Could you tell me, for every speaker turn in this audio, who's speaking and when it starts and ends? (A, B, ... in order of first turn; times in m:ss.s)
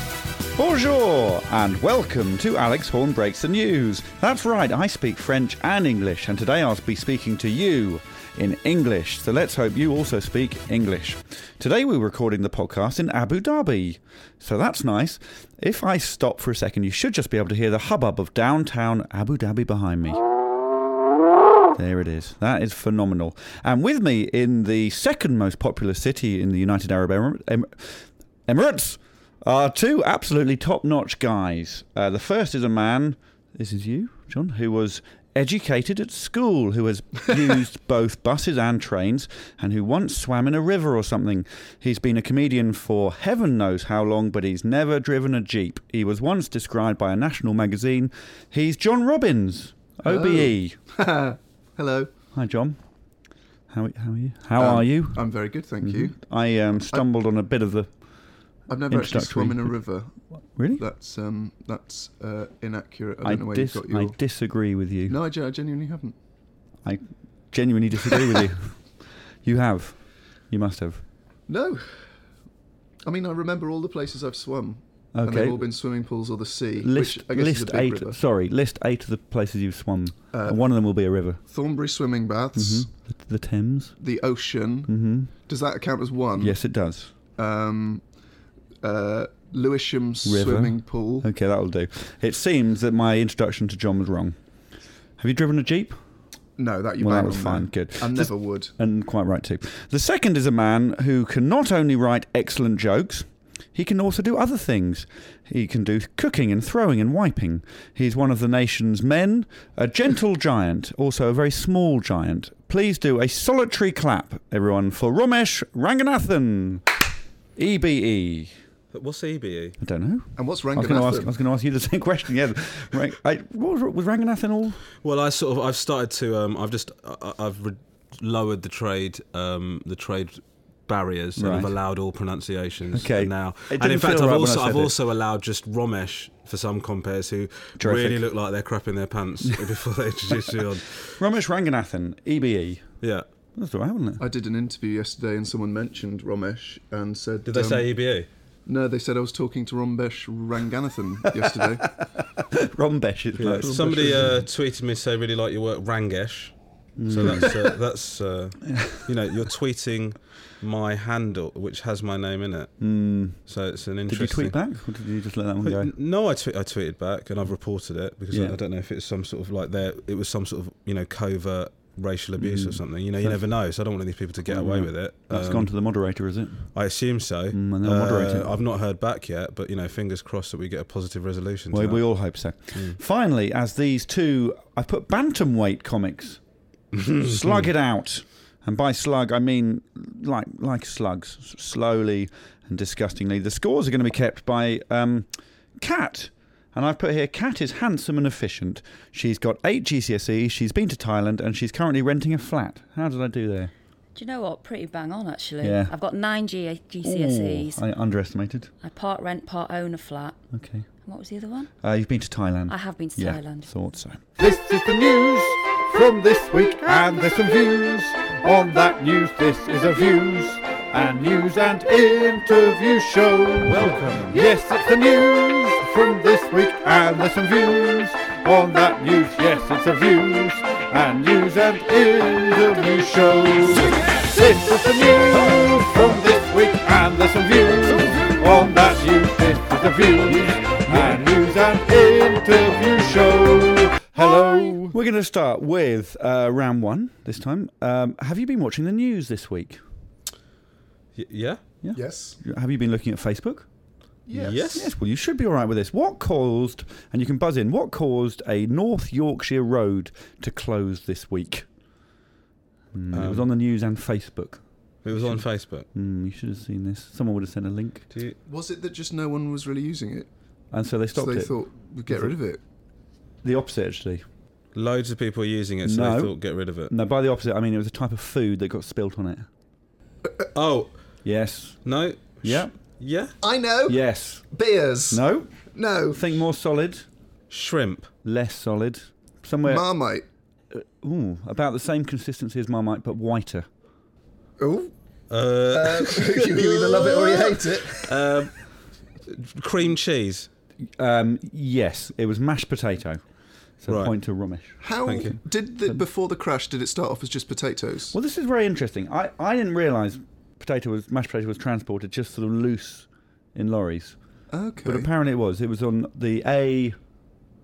0:00.5-0:20.2 A
0:21.7-0:50.8 A
0:50.0-0:52.1 B
0:52.3-0:52.8 A
0:53.7-0:57.9 A
0:54.6-0:56.2 B
0:58.7-1:00.1 B
0:58.9-0:59.8 A
1:00.5-1:00.8 A
1:00.8-1:04.2 B
1:03.2-1:05.2 A
1:05.1-1:06.1 B
1:06.8-1:10.0 A
1:10.5-1:11.0 A
1:11.5-1:11.8 B
1:13.0-1:18.2 B
1:15.1-1:15.7 A
1:16.8-1:21.4 A
1:20.3-1:20.6 B
1:21.5-1:22.9 B
1:22.5-1:24.0 A
1:24.0-1:24.9 B
1:24.8-1:25.3 A
1:25.4-1:26.6 B
1:26.3-1:27.1 A
1:27.4-1:28.0 B
1:28.8-1:31.3 B
1:30.2-1:34.4 A
1:35.2-1:36.0 A
1:36.6-1:38.7 B
1:37.0-1:57.0 A
1:57.6-1:58.5 A
1:58.9-1:59.8 C
1:59.8-2:04.8 A
2:00.4-2:01.3 B
2:05.0-2:21.2 C
2:11.4-2:11.7 A
2:12.9-2:14.9 A
2:17.8-2:18.2 A
2:21.2-2:22.8 A
2:23.6-2:24.2 A
2:24.2-2:27.9 B
2:27.4-2:28.3 C
2:28.6-2:31.9 B
2:31.3-2:34.4 A
2:33.4-2:36.5 C
2:33.4-2:34.4 B
2:37.0-2:37.5 A
2:37.1-2:42.9 C
2:38.7-2:39.0 A
2:42.8-2:43.4 A
2:43.4-2:44.6 C
2:44.1-2:45.9 A
2:45.6-2:55.7 C
2:48.3-2:48.6 A
2:52.4-2:53.4 A
2:54.5-2:56.7 A
2:56.7-3:02.0 C
2:57.5-2:58.6 A
3:01.7-3:06.4 A
3:02.7-3:03.0 C
3:06.9-3:07.7 C
3:07.0-3:23.7 A
3:24.1-3:27.8 D
3:25.6-3:25.9 A
3:27.0-3:28.7 A
3:28.8-3:30.4 D
3:30.5-3:30.8 A
3:31.0-3:31.7 D
3:31.8-3:34.2 A
3:32.7-3:33.7 D
3:34.4-4:04.9 E
3:43.6-3:44.5 A
3:53.7-3:54.4 A
3:57.9-3:58.8 A
4:00.9-4:01.3 A
4:04.8-4:09.8 A
4:11.1-4:11.6 C
4:11.8-4:13.7 A
4:11.9-4:12.4 B
4:14.3-4:14.8 B
4:14.3-4:14.9 C
4:14.7-4:21.7 A
4:22.9-4:24.6 A
4:23.1-4:23.5 C
4:25.0-4:25.9 C
4:25.1-4:28.1 A
4:28.4-4:30.3 B
4:30.7-4:31.6 A
4:31.1-4:32.6 B
4:32.1-4:32.3 A
4:33.4-4:34.2 A
4:34.7-4:36.9 C
4:35.8-4:36.4 A
4:36.9-4:39.5 A
4:40.5-4:40.9 C
4:41.2-4:41.8 A
4:41.8-4:43.3 C
4:42.4-4:42.7 A
4:43.4-4:46.3 B
4:43.8-4:44.5 A
4:45.1-4:47.1 A
4:47.5-4:48.1 C
4:48.2-4:49.8 A
4:49.6-4:50.2 B
4:50.7-4:53.7 A
4:54.6-4:54.9 B
4:55.3-4:58.6 C
4:55.7-4:58.3 B
4:59.3-5:00.5 C
5:01.0-5:03.2 A
5:03.8-5:05.3 A
5:03.9-5:04.1 C
5:04.8-5:08.1 B
5:05.0-5:05.4 C
5:08.1-5:14.2 A
5:14.5-5:15.1 B
5:14.8-5:17.0 A